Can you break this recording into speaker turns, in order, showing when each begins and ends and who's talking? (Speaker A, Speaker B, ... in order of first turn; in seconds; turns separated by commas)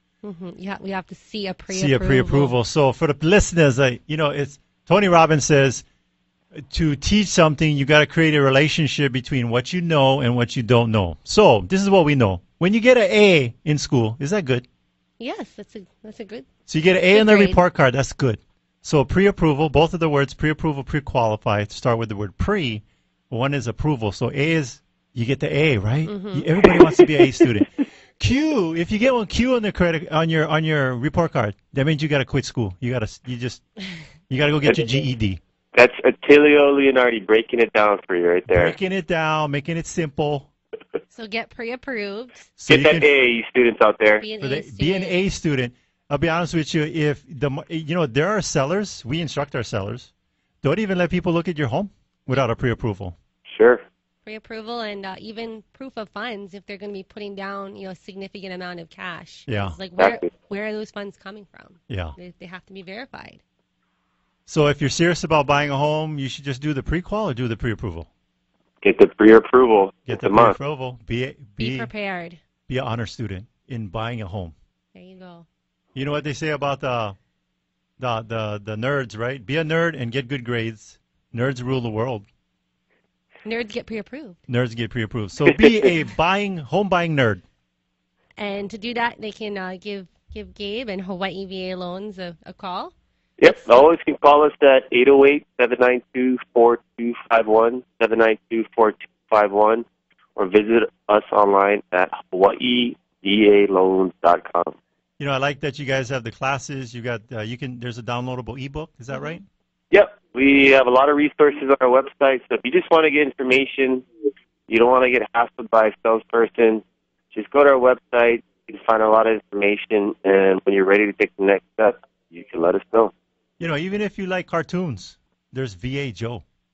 Speaker A: 0.2-2.6, Speaker B: 1.7-5.8, Speaker B: 6.5-14.7, Speaker A: 15.2-16.5, Speaker B: 16.7-33.6, Speaker A: 17.1-17.6, Speaker A: 26.1-26.7, Speaker B: 34.3-35.4, Speaker C: 35.7-38.8, Speaker B: 38.5-40.5, Speaker A: 41.1-42.5, Speaker B: 42.6-43.1, Speaker C: 42.7-44.2, Speaker A: 44.2-45.2, Speaker B: 44.4-50.1, Speaker B: 50.6-53.2, Speaker C: 53.5-53.8, Speaker A: 54.2-63.4, Speaker B: 59.5-59.8, Speaker C: 60.0-60.2, Speaker B: 61.9-62.1, Speaker B: 64.5-68.1, Speaker C: 68.8-70.6, Speaker B: 70.1-71.9, Speaker A: 71.6-72.4, Speaker B: 72.7-74.5, Speaker A: 74.9-75.5, Speaker B: 76.0-77.2, Speaker B: 78.0-82.2, Speaker A: 83.5-84.4, Speaker B: 84.5-87.4, Speaker A: 88.4-92.9, Speaker C: 93.4-99.8, Speaker C: 100.4-104.8, Speaker B: 105.2-109.4, Speaker C: 109.9-114.1, Speaker C: 114.7-123.1, Speaker B: 123.6-126.4